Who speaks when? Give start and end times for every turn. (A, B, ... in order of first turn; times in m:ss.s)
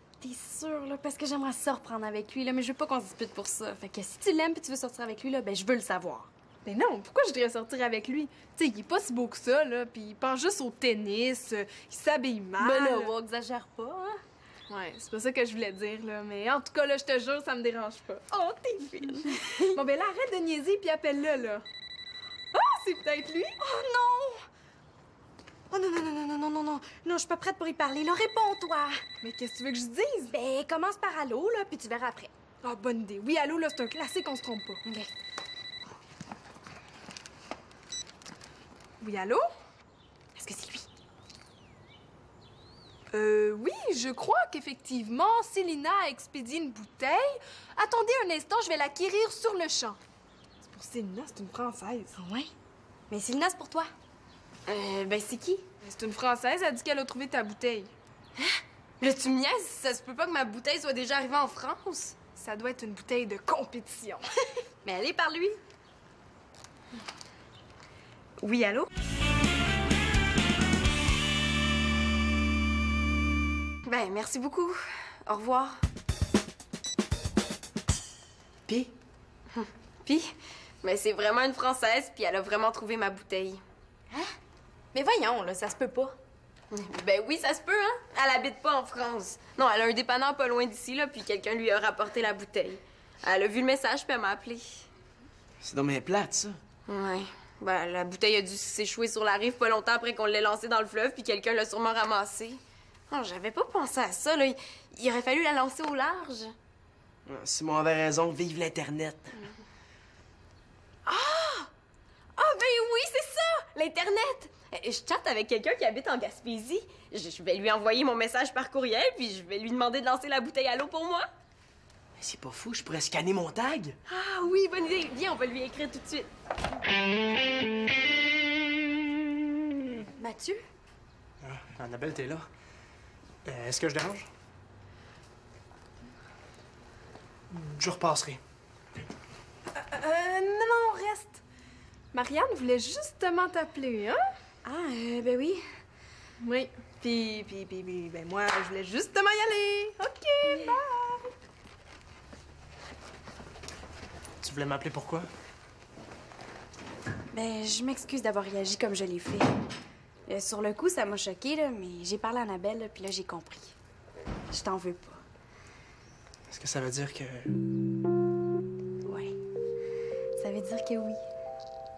0:00.2-0:06.3 A
0:06.6-0:13.1 B
0:12.6-0:14.2 A
0:14.7-0:21.6 B
0:18.5-0:19.8 A
0:22.5-0:23.6 B
0:23.6-0:24.4 A
0:25.7-0:29.0 A
0:29.2-0:30.3 B
0:30.3-0:32.3 A
0:32.6-0:34.8 B
0:39.0-0:39.5 B
0:40.4-0:40.8 A
0:43.1-0:50.0 B
0:50.6-0:52.2 B
0:52.1-0:52.5 A
0:53.1-0:53.9 A
0:54.7-0:55.6 C
0:55.8-0:57.9 B
0:58.4-1:02.2 C
1:02.4-1:04.2 B
1:04.8-1:05.6 A
1:08.4-1:08.9 A
1:13.8-1:15.8 C
1:19.5-1:23.6 C
1:24.9-1:26.1 A
1:26.7-1:34.9 C
1:35.6-1:36.6 D
1:36.9-1:46.5 C
1:47.2-1:49.4 D
1:51.0-1:51.7 C
1:52.4-2:01.3 C
2:02.2-2:04.0 D
2:04.0-2:06.3 C
2:10.2-2:10.6 A
2:11.4-2:12.5 E
2:13.4-2:14.3 E
2:17.5-2:18.4 E
2:19.7-2:21.4 B
2:22.1-2:24.2 B
2:24.6-2:25.6 A
2:26.4-2:31.3 B
2:30.4-2:30.8 A
2:34.4-2:35.3 E
2:37.3-2:39.5 A
2:40.3-2:43.7 A
2:44.5-2:45.2 A
2:46.5-2:47.5 E
2:49.0-2:49.3 A
2:50.4-2:51.2 A